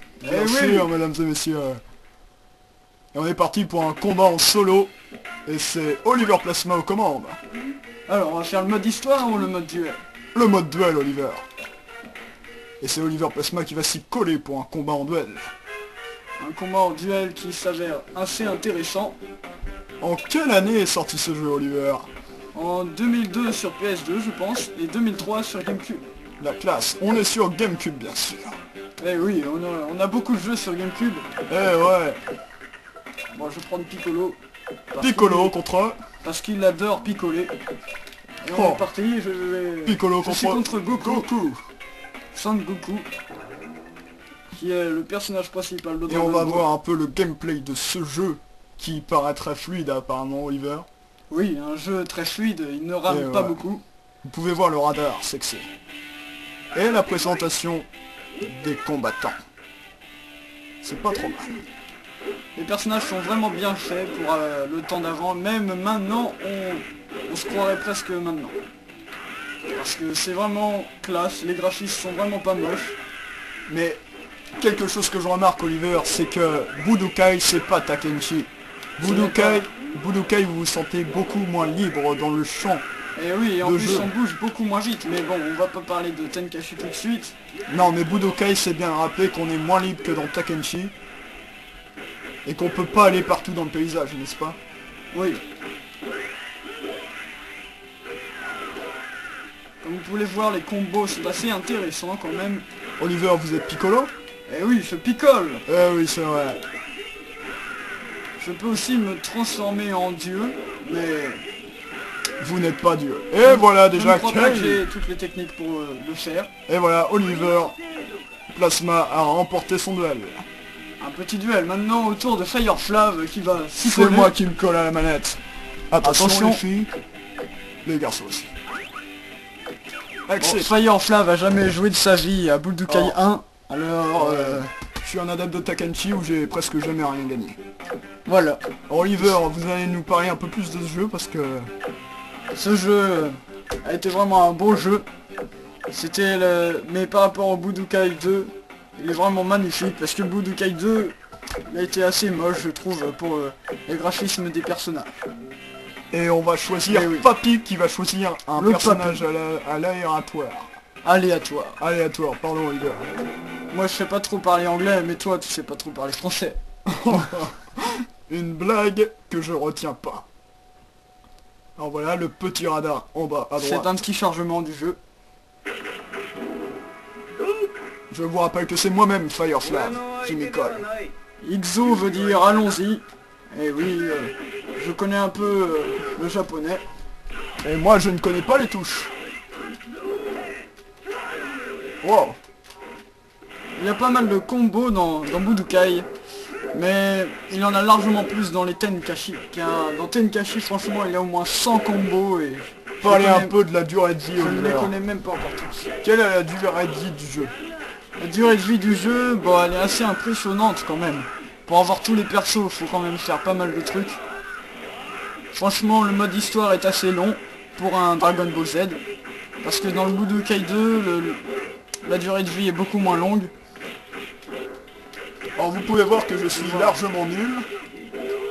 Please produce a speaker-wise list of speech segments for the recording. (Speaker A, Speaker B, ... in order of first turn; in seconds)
Speaker A: 0.2-0.9, 8.1-10.0, 16.4-19.2, 22.5-26.1, 29.0-31.3, 33.3-34.4, 34.9-35.5, 36.2-37.5, 38.4-41.3, 42.3-43.1, 44.5-46.6, 51.3-53.8, 62.6-68.6, 69.7-73.0, 79.0-79.7, 83.2-87.3, 95.1-95.4, 99.8-102.7, 104.5-105.6, 108.4-111.5, 113.4-116.5, 121.0-124.3, 126.0-126.6, 130.4-134.7, 138.3-138.7, 142.5-145.1, 145.9-155.2, 156.9-157.3, 158.6-159.2, 161.0-161.8, 163.7-166.6, 173.6-175.0, 181.4-186.8, 193.8-196.1, 196.7-203.5, 204.4-205.9, 208.2-214.2, 215.5-219.0, 219.6-221.5, 222.0-223.5, 226.5-227.0
Speaker B: 0.3-1.8, 3.1-4.9, 5.5-7.4, 10.3-11.5, 12.8-15.5, 20.0-22.1, 26.4-28.6, 31.5-32.2, 35.0-36.0, 38.5-38.8, 39.9-41.6, 46.1-50.9, 53.1-53.6, 54.2-55.7, 56.8-57.9, 58.4-59.4, 60.8-61.6, 73.7-74.0, 74.6-82.8, 83.6-84.1, 87.7-90.9, 92.5-94.6, 103.0-104.1, 105.7-106.6, 112.4-114.8, 116.7-117.8, 118.5-120.4, 123.8-125.4, 125.9-126.9, 127.8-128.5, 130.3-130.7, 132.9-133.2, 134.2-137.6, 138.9-141.7, 156.1-160.7, 161.8-163.1, 166.9-170.3, 171.8-173.9, 178.1-180.9, 187.6-189.1, 192.0-192.4, 203.0-204.9, 206.0-207.5, 225.6-227.7